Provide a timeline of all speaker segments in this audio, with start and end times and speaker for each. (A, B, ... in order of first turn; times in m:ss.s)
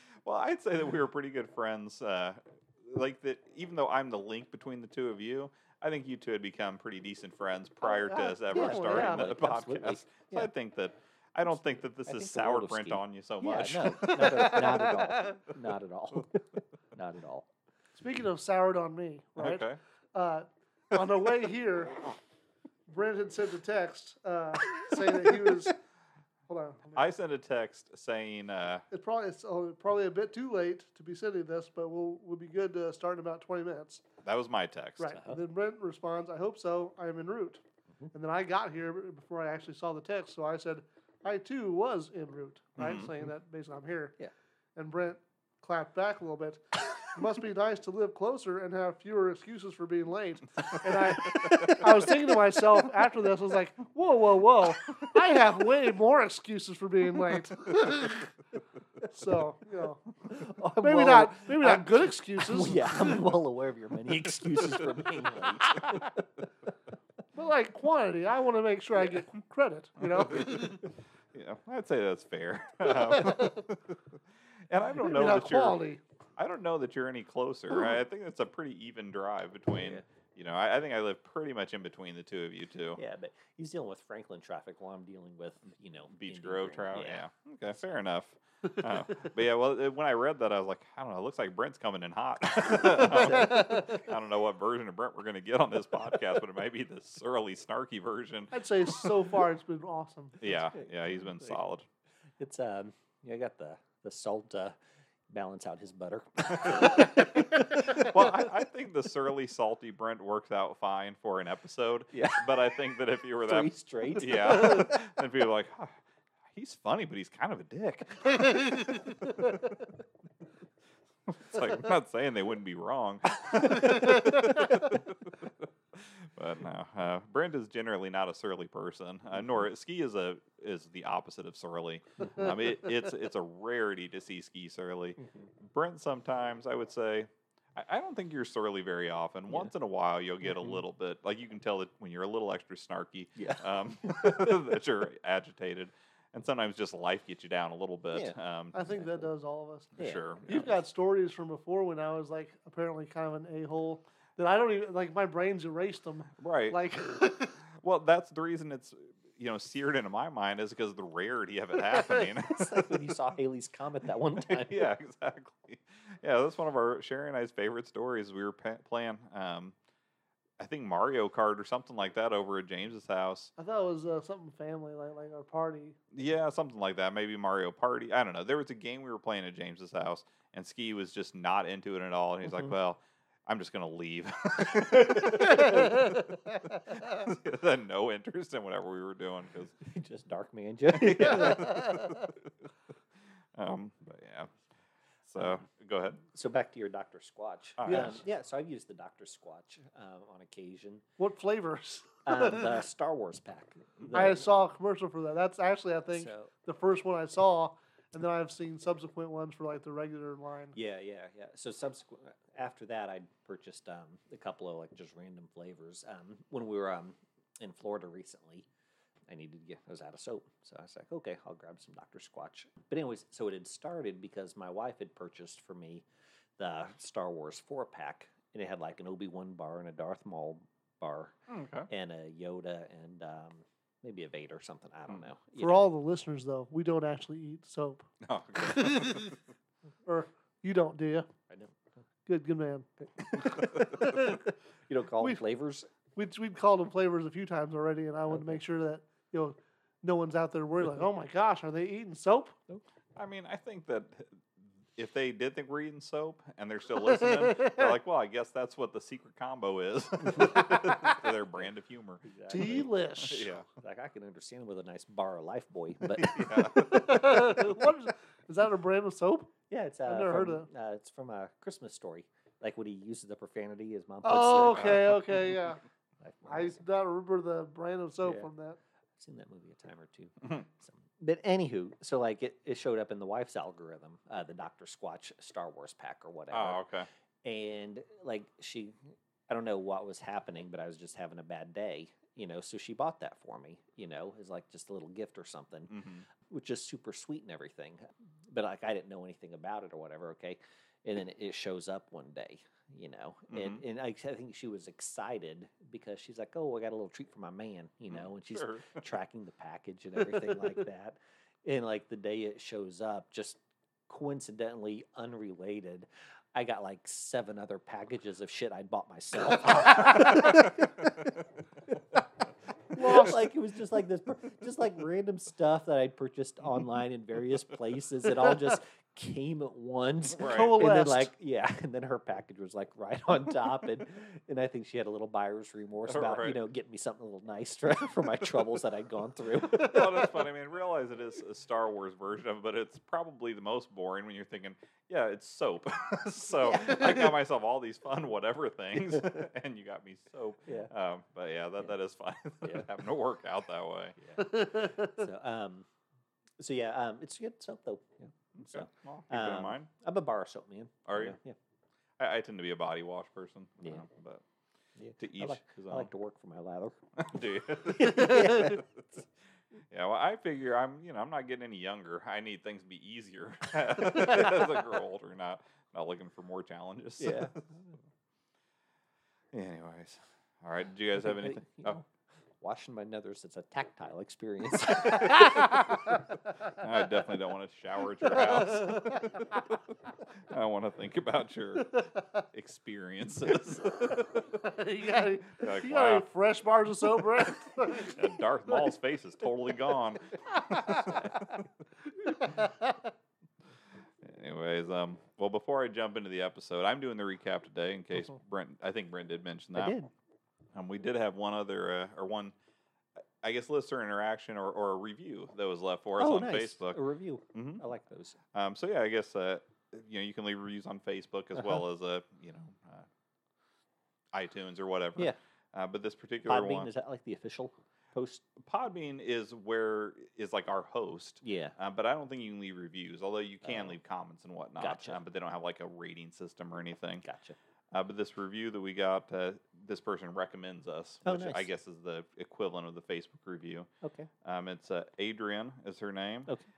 0:00.2-0:14.6 A
0:08.0-0:10.5 B
0:08.5-0:09.3 C
0:12.0-0:17.5 B
0:14.0-0:15.4 C
0:18.0-0:22.2 C
0:19.4-0:19.8 A
0:22.9-0:25.8 C
0:26.5-0:27.1 C
0:26.9-0:28.8 A
0:28.9-0:34.0 C
0:34.2-0:35.1 A
0:35.0-0:44.2 C
0:35.1-0:35.4 B
0:42.8-0:43.1 A
0:44.8-0:58.3 C
0:51.0-0:52.2 A
0:59.0-1:00.1 C
1:00.3-1:06.2 B
1:00.8-1:03.4 C
1:04.5-1:04.8 C
1:05.7-1:06.1 C
1:07.3-1:10.9 C
1:10.0-1:15.8 A
1:13.0-1:13.6 C
1:15.0-1:16.0 C
1:16.4-1:23.0 A
1:19.8-1:20.0 B
1:23.0-1:27.2 B
1:26.1-1:39.2 A
1:33.0-1:33.5 B
1:33.1-1:33.9 C
1:38.5-1:40.4 C
1:40.4-1:41.8 A
1:40.7-1:41.6 B
1:42.4-1:44.8 B
1:45.3-1:48.2 B
1:46.5-1:56.0 A
1:52.1-1:52.5 B
1:53.4-1:54.9 B
1:56.5-1:59.0 A
1:58.5-1:59.4 C
2:01.3-2:28.8 A
2:23.4-2:24.6 B
2:28.7-2:37.6 C
2:28.9-2:29.3 B
2:30.0-2:30.7 A
2:30.0-2:30.8 B
2:36.4-2:36.8 A
2:37.8-2:42.9 A
2:41.9-2:42.4 C
2:42.5-2:44.9 B
2:44.4-2:49.8 A
2:50.6-2:53.5 A
2:53.6-2:56.0 C
2:56.1-3:09.8 A
3:05.7-3:06.2 C
3:09.8-3:11.9 B
3:10.9-3:12.5 A
3:11.4-3:12.2 C
3:13.5-3:14.5 A
3:15.3-3:16.2 A
3:16.3-3:21.0 B
3:17.8-3:18.2 A
3:17.9-3:18.2 C
3:21.2-3:22.8 C
3:22.3-3:24.5 B
3:24.1-3:30.8 C
3:26.1-3:26.5 B
3:30.8-3:38.7 B
3:39.3-3:46.0 B
3:46.6-3:51.4 B
3:51.5-3:51.9 A
3:51.9-3:55.8 B
3:55.6-3:59.4 C
3:58.2-3:59.4 A
4:00.1-4:01.3 C
4:02.3-4:04.4 C
4:03.4-4:04.4 B
4:04.9-4:05.9 B
4:06.2-4:12.6 C
4:13.2-4:14.4 A
4:15.0-4:23.7 A
4:17.4-4:17.8 C
4:20.4-4:21.2 C
4:22.2-4:22.9 B
4:22.5-4:23.5 C
4:23.8-4:26.7 B
4:26.1-4:27.5 A
4:26.7-4:29.5 C
4:29.7-4:35.1 B
4:30.1-4:30.7 C
4:34.2-4:35.8 C
4:34.6-4:35.4 A
4:36.2-4:36.8 B
4:36.5-4:38.8 C
4:38.2-4:38.5 B
4:39.2-4:46.8 B
4:46.5-4:47.1 A
4:47.4-4:49.0 B
4:49.5-5:22.2 B
4:55.9-4:56.2 A
5:03.5-5:03.8 A
5:08.1-5:09.0 A
5:19.9-5:20.3 C
5:20.2-5:20.4 A
5:22.9-5:40.4 B
5:23.0-5:23.4 C
5:30.3-5:30.9 A
5:30.4-5:31.3 C
5:36.1-5:36.6 A
5:39.7-5:54.2 A
5:49.1-5:49.4 B
5:50.7-5:50.9 B
5:54.2-5:55.9 B
5:54.4-5:55.2 C
5:56.6-6:01.6 B
5:58.6-5:59.9 A
6:01.1-6:01.4 A
6:02.2-6:04.4 A
6:05.0-6:08.8 B
6:05.2-6:06.1 A
6:07.2-6:08.9 A
6:09.9-6:17.6 A
6:17.2-6:17.6 B
6:19.5-6:22.0 A
6:21.4-6:22.1 B
6:22.6-6:26.0 B
6:26.8-6:29.6 A
6:28.6-6:29.4 C
6:30.4-6:34.5 A
6:34.5-6:38.8 C
6:35.6-6:36.3 A
6:37.9-6:41.6 A
6:40.5-6:41.2 C
6:42.2-6:43.1 C
6:44.2-6:50.0 A
6:49.7-6:50.1 B
6:50.7-6:52.5 A
6:53.4-6:57.0 A
6:56.2-6:58.4 B
6:57.5-6:57.8 A
6:58.5-7:03.1 A
7:04.3-7:06.9 A
7:06.5-7:08.5 B
7:08.6-7:17.2 A
7:11.4-7:11.8 B
7:13.7-7:13.9 B
7:14.8-7:15.2 B
7:17.2-7:17.6 B
7:17.9-7:23.9 A
7:21.2-7:21.7 B
7:24.0-7:24.3 B
7:24.4-7:26.5 A